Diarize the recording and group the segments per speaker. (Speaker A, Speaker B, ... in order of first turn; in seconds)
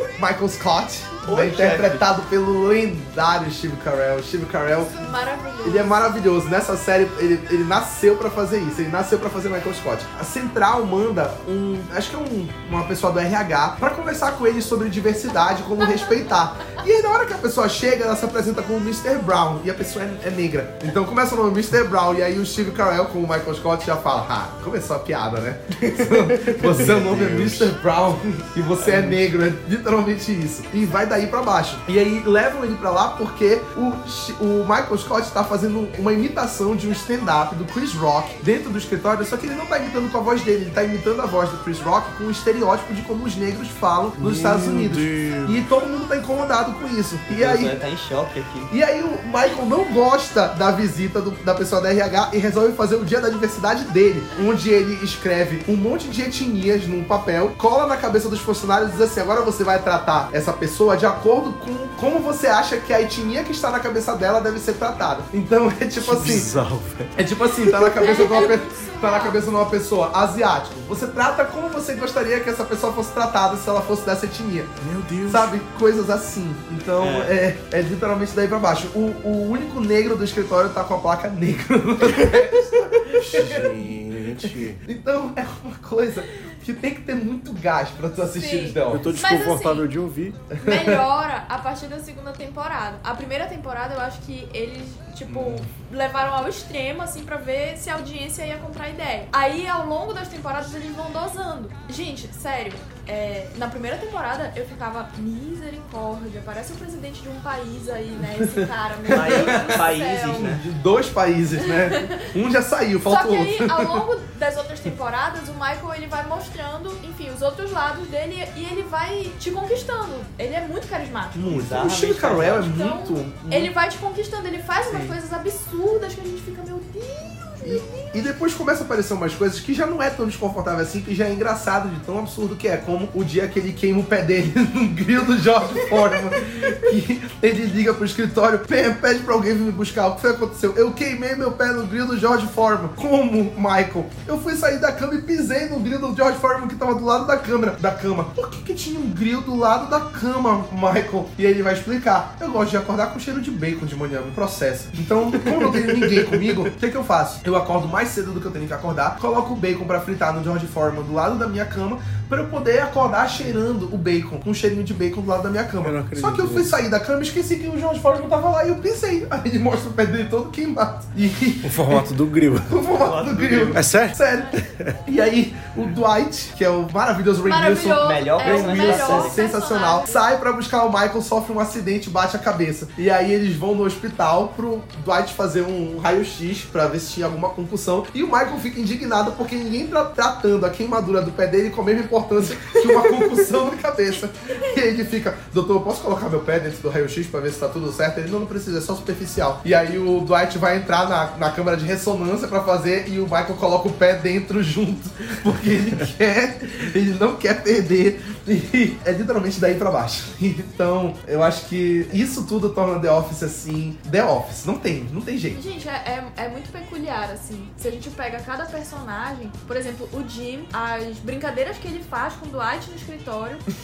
Speaker A: 0.2-4.9, 5.6-47.7, 48.7-66.5, 67.2-83.7, 84.4-89.1, 90.5-91.0, 95.2-95.7, 108.2-109.8, 110.3-114.0, 121.3-123.7, 124.9-125.2, 127.6-172.1, 172.6-215.6
Speaker B: 1.2-2.0, 47.3-48.7, 77.0-77.3, 109.1-110.6, 121.5-122.7, 173.0-173.9, 178.0-179.4
Speaker C: 4.8-6.2, 15.8-16.2, 68.0-69.4, 88.3-89.9, 90.6-110.5, 111.6-112.3, 113.1-121.4, 122.5-128.3, 177.4-180.2, 215.5-223.6
Speaker D: 26.4-27.7, 28.8-29.2, 44.2-45.6, 66.0-68.2, 74.8-75.5, 83.0-84.8, 88.9-90.4, 165.8-166.7, 171.6-172.8, 173.7-174.9